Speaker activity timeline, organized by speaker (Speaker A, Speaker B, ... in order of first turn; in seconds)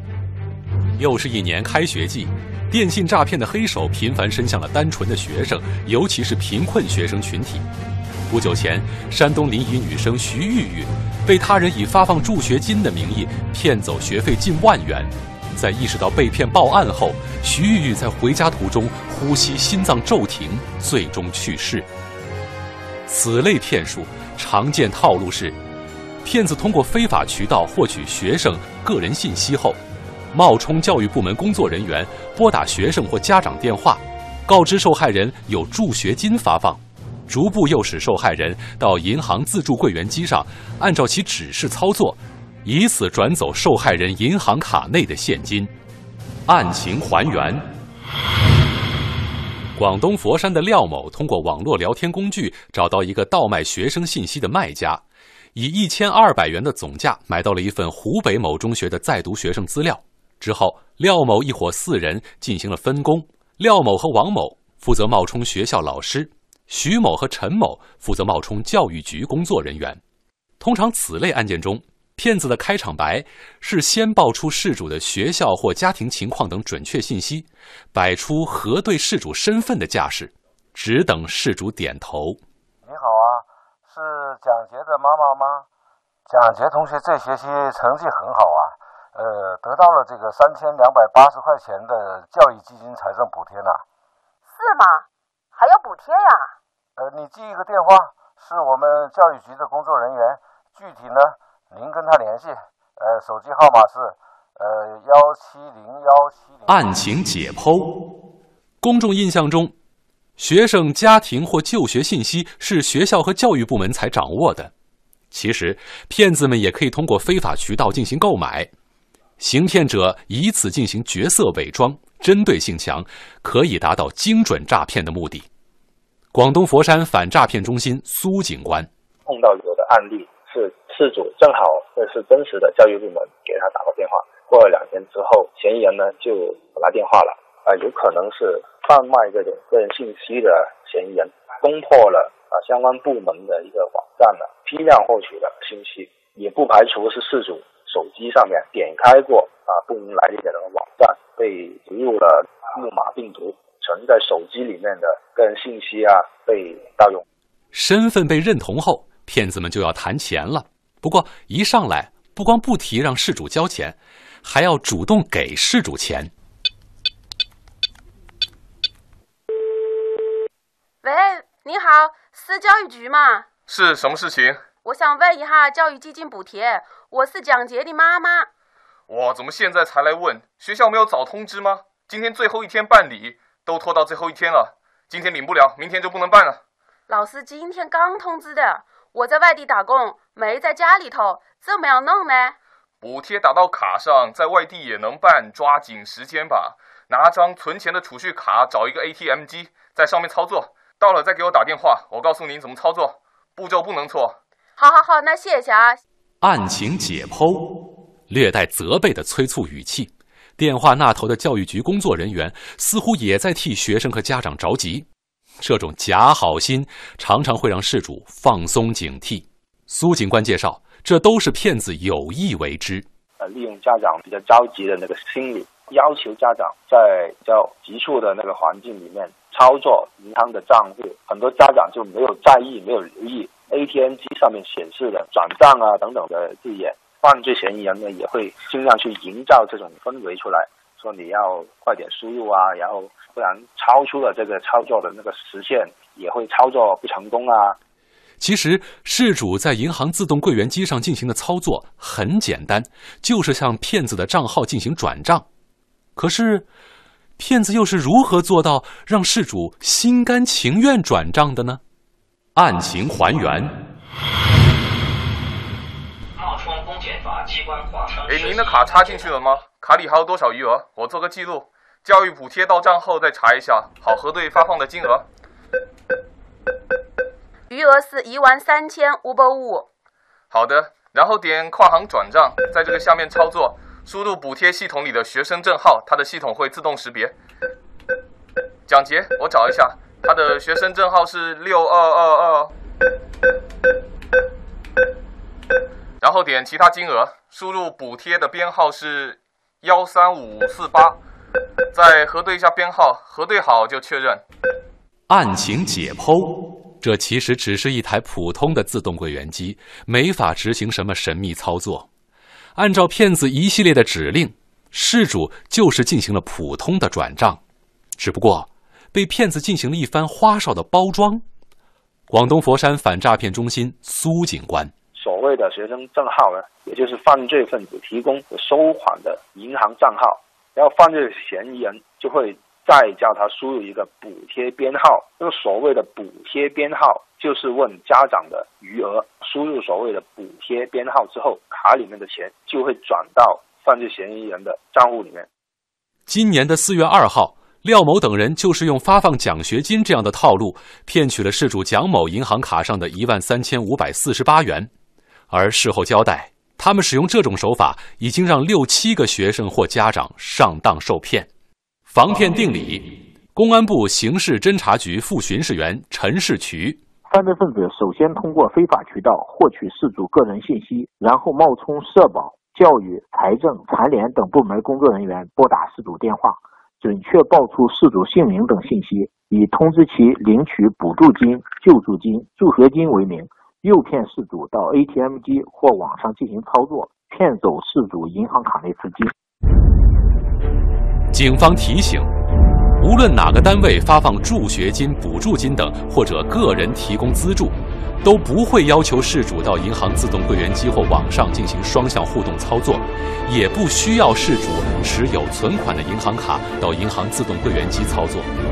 Speaker A: 1.0-7.7, 8.3-21.9, 23.1-25.6, 26.2-29.8, 30.3-45.7, 46.5-47.6, 49.8-55.0, 55.5-70.0, 70.6-82.4, 106.7-108.0, 108.8-109.7, 110.4-114.7, 115.3-118.7, 119.4-125.5, 126.3-128.9, 157.7-166.3, 206.4-215.1, 215.6-223.1, 248.4-255.5, 256.2-256.7, 257.4-261.8, 262.6-263.7, 305.3-312.1, 312.8-317.6, 318.2-321.4, 322.3-324.9, 346.3-354.9, 355.5-361.5, 362.1-367.0, 391.3-392.3, 393.0-408.5
Speaker B: 82.8-85.7, 86.3-93.8, 97.0-106.9
Speaker C: 94.5-96.5, 171.0-173.5, 174.8-178.5, 187.1-192.6, 204.8-206.0, 277.7-279.9
Speaker D: 129.3-157.2, 223.4-247.8, 325.1-345.5
Speaker E: 173.7-174.6, 179.1-186.6, 193.0-204.4, 268.2-275.3, 280.5-287.4, 288.9-292.7, 296.2-301.2, 301.9-304.4
Speaker F: 266.4-269.2
Speaker G: 367.3-389.3